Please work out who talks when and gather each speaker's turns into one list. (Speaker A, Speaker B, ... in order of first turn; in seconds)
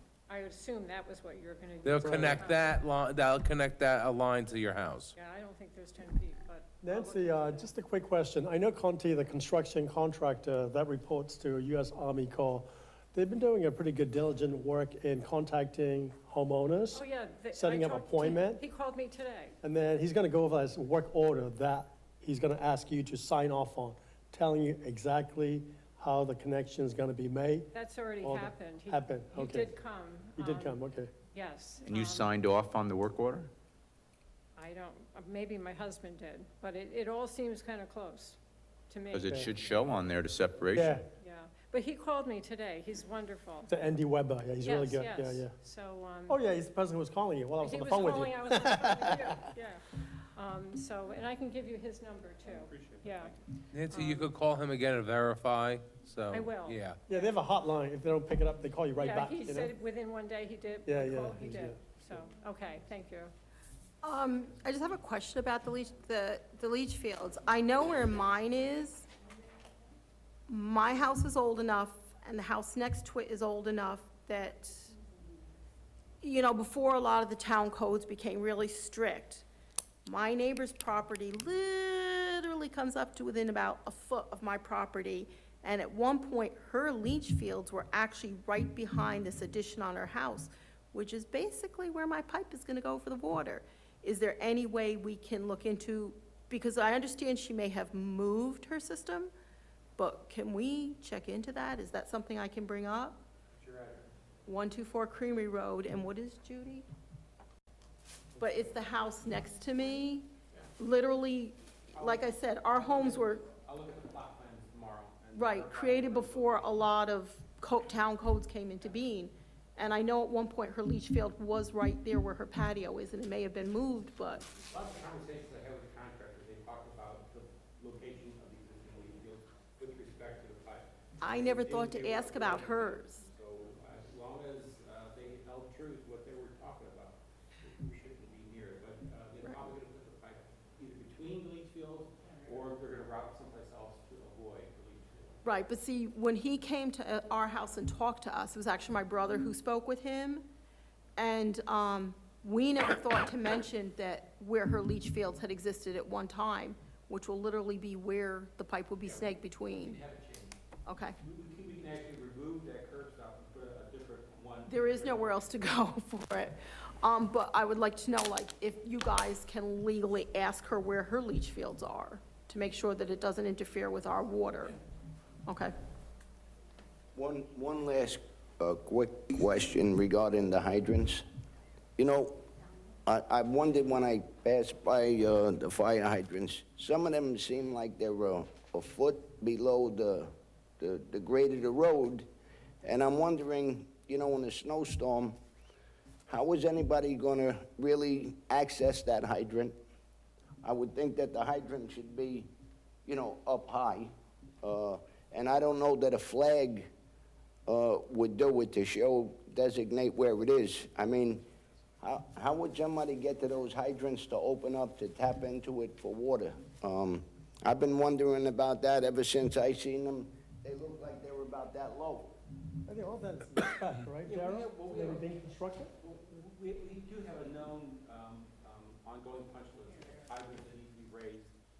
Speaker A: 0.3-2.7, 5.1-7.7, 16.9-19.6, 27.7-32.3, 34.5-38.4, 38.9-39.5, 41.2-43.9, 44.6-46.5, 47.6-53.3, 53.9-54.3, 56.3-57.4, 59.0-63.3
Speaker B: 1.8-5.1, 53.7-57.0
Speaker C: 2.0-2.4, 6.8-17.0, 17.5-18.6, 19.6-27.6, 28.2-29.7, 30.4-31.1, 43.7-45.4, 46.3-49.1, 57.1-59.7, 60.9-61.7, 222.9-225.9
Speaker D: 31.8-33.5, 39.1-41.0
Speaker E: 52.4-53.4, 103.5-104.1, 111.9-116.9, 124.6-145.4, 159.0-160.6, 161.2-165.4, 224.2-225.4, 226.0-231.5
Speaker F: 64.0-69.1, 70.5-75.0, 76.2-79.4, 80.0-99.3, 100.0-103.2, 104.5-106.8, 108.4-113.5, 115.3-124.5, 131.2-133.2, 139.4-139.7, 145.4-150.5, 151.2-160.0, 160.8-161.2, 164.7-174.8, 175.5-175.7
Speaker G: 177.1-181.2, 182.0-182.4, 183.1-192.3, 192.8-195.4, 196.3-199.8, 200.6-202.5, 203.1-206.9, 207.7-211.4, 212.0-222.3